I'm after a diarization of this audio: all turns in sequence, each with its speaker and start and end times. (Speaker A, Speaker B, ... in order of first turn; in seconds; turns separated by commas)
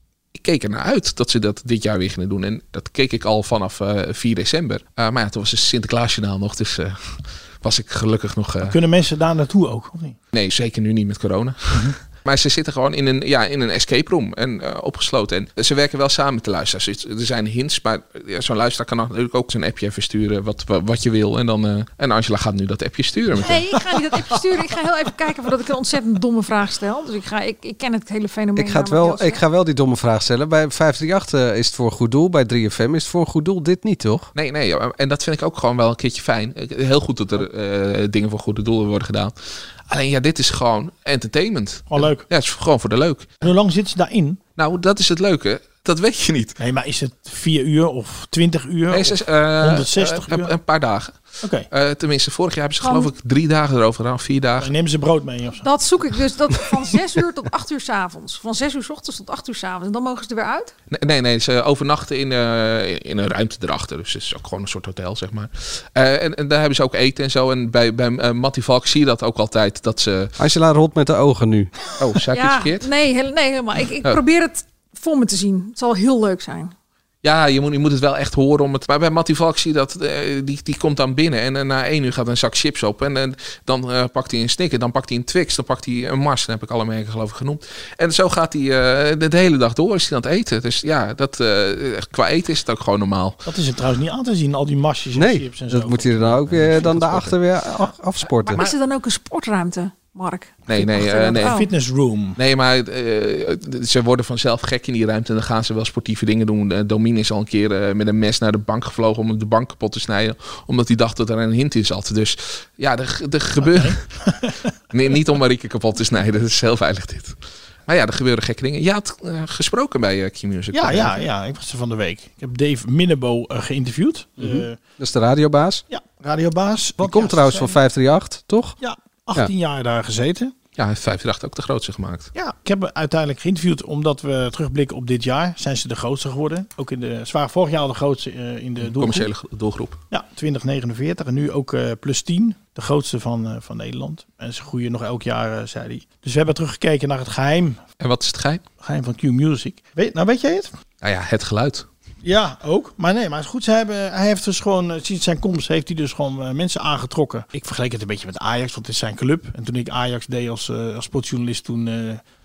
Speaker A: 0.3-8.8, Speaker B: 8.6-10.2, Speaker A: 10.3-23.8, Speaker C: 23.4-29.4, Speaker D: 28.6-34.3, Speaker A: 34.3-43.5, Speaker B: 41.9-42.2, Speaker B: 43.4-44.4, Speaker A: 44.6-46.6, Speaker B: 46.6-50.5, Speaker A: 48.9-54.7, Speaker C: 52.8-53.1, Speaker B: 54.6-55.6, Speaker C: 55.6-60.7, Speaker A: 60.9-70.3, Speaker D: 70.4-71.7, Speaker A: 72.0-72.9, Speaker C: 72.3-76.7, Speaker A: 77.2-93.4, Speaker B: 93.5-97.9, Speaker D: 95.1-98.6, Speaker A: 98.4-98.7, Speaker C: 98.5-101.7, Speaker A: 100.7-101.6, Speaker B: 101.3-102.4, Speaker A: 102.3-114.0, Speaker B: 113.6-114.7, Speaker A: 114.9-121.3, Speaker B: 120.7-124.8, Speaker D: 124.4-125.8, Speaker B: 125.9-127.8, Speaker D: 127.0-128.8, Speaker B: 128.8-130.5, Speaker A: 130.8-132.3, Speaker B: 132.3-139.3, Speaker A: 138.8-140.0, Speaker B: 140.1-147.8, Speaker A: 148.0-148.6, Speaker B: 148.8-150.7, Speaker A: 151.0-151.9, Speaker B: 152.2-162.2